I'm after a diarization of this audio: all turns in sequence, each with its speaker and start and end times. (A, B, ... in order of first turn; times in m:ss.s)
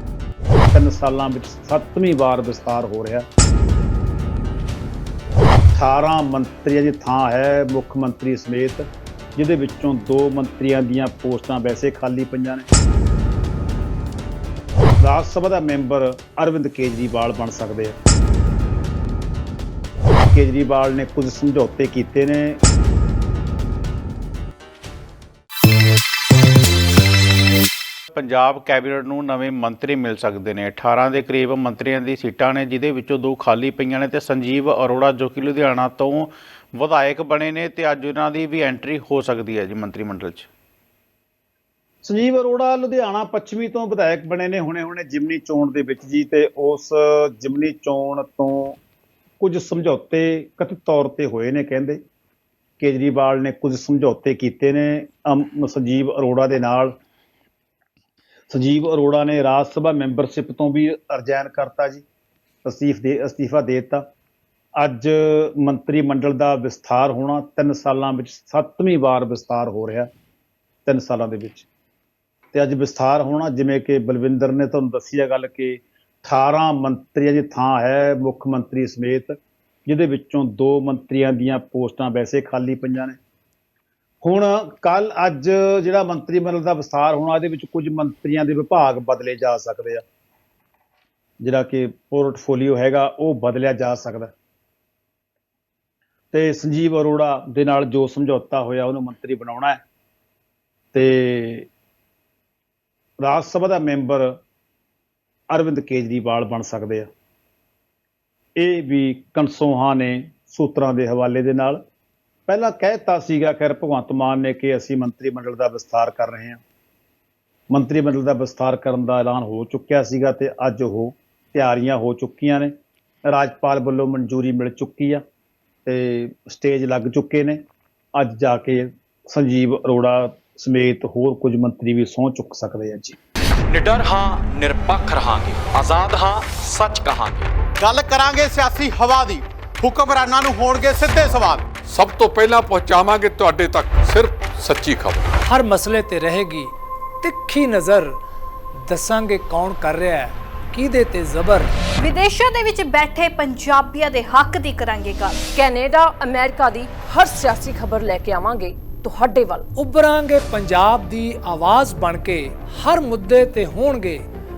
0:00.7-0:03.3 A
0:05.8-0:08.8 A
0:09.4-0:12.7 A
0:15.0-0:18.0 A
0:20.3-0:22.6 A
0:28.1-0:40.5 B
0:42.0-0:48.8 A
0:49.4-0:52.0 A
0:52.8-0:57.0 A
0:58.5-1:02.0 A
1:02.6-1:04.0 A
1:04.8-1:10.1 A
1:10.9-1:11.7 A
1:12.5-1:19.4 A
1:19.9-1:23.2 A
1:24.2-1:30.0 A
1:31.4-1:34.3 A
1:36.3-1:39.8 A
1:40.9-1:41.7 A
1:43.2-1:44.4 A
1:45.5-1:47.1 A
1:48.6-1:51.8 A
1:52.5-1:56.6 A
1:57.7-2:02.7 A
2:03.3-2:05.2 A
2:05.9-2:07.6 A
2:08.2-2:13.2 A
2:13.7-2:17.5 C
2:17.8-2:21.8 D
2:21.8-2:25.2 E
2:25.5-2:28.2 F
2:28.8-2:31.7 F
2:32.0-2:35.4 G
2:35.5-2:39.7 H
2:39.8-2:44.3 F